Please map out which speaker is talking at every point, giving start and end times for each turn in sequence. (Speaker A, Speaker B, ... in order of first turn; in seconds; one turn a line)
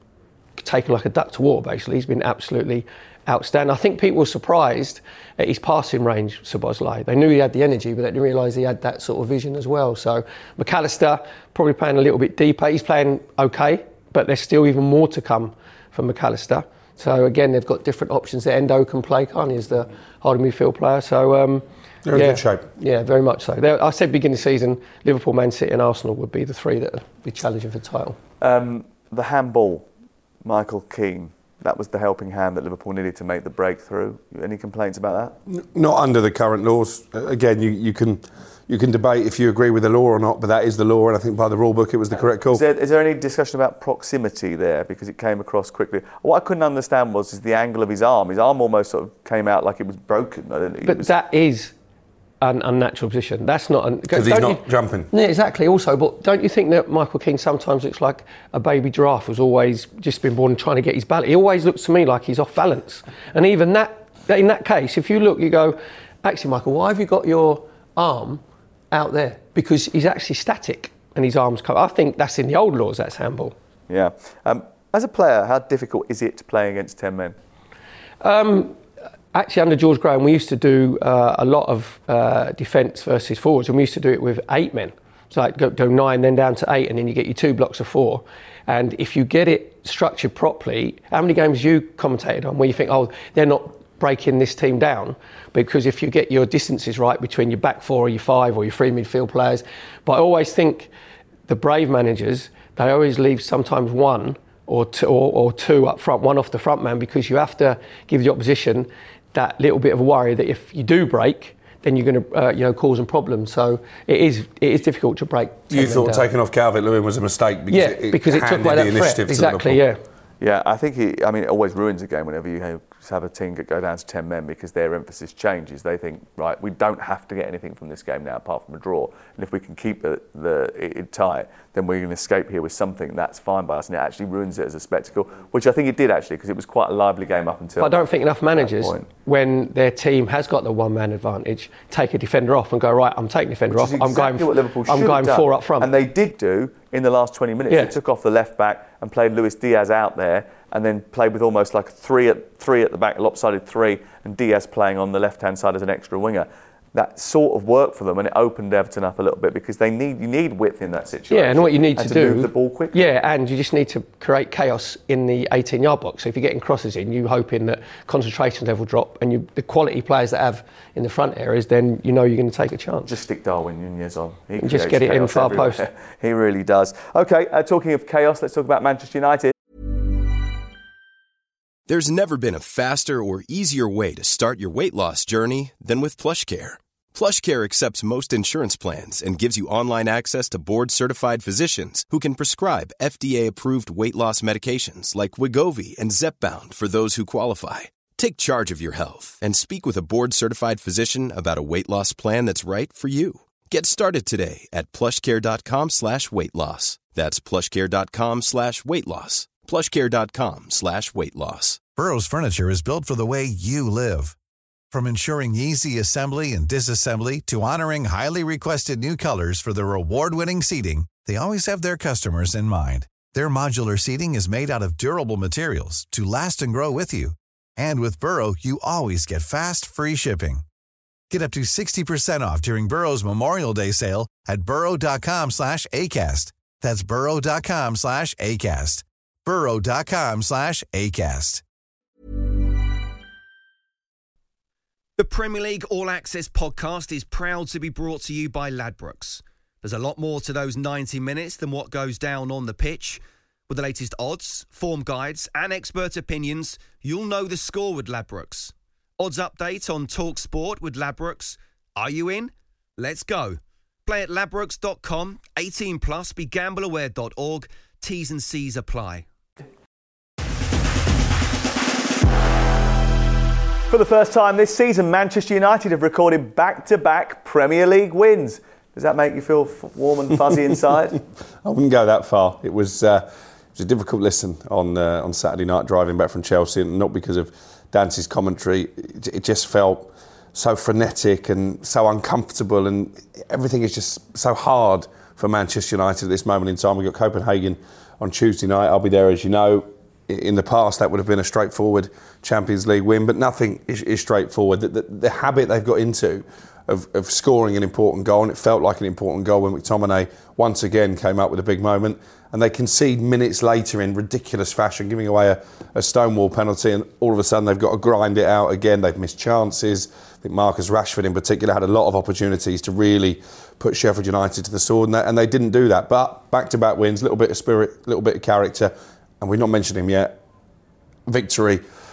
Speaker A: 0.6-28.2
Speaker B: 22.1-22.7
Speaker C: 28.4-29.9
Speaker C: 30.4-35.4
Speaker B: 35.5-42.6
Speaker C: 42.5-51.1
Speaker A: 50.9-51.7
Speaker A: 52.4-73.5
Speaker B: 54.1-55.1
Speaker C: 73.9-77.3
Speaker A: 78.2-78.8
Speaker A: 79.3-100.9
Speaker A: 101.5-116.3
Speaker B: 115.7-119.8
Speaker A: 117.7-120.0
Speaker C: 120.4-138.0
Speaker A: 137.8-145.9
Speaker C: 138.6-139.1
Speaker C: 143.7-163.0
Speaker A: 161.3-173.1
Speaker C: 173.1-179.5
Speaker A: 174.6-175.8
Speaker D: 181.9-211.8
Speaker E: 211.9-214.4
Speaker E: 214.9-230.7
Speaker E: 231.3-241.6
Speaker F: 245.2-269.3
Speaker C: 273.9-281.2
Speaker B: 281.6-330.4
Speaker B: 331.3-331.8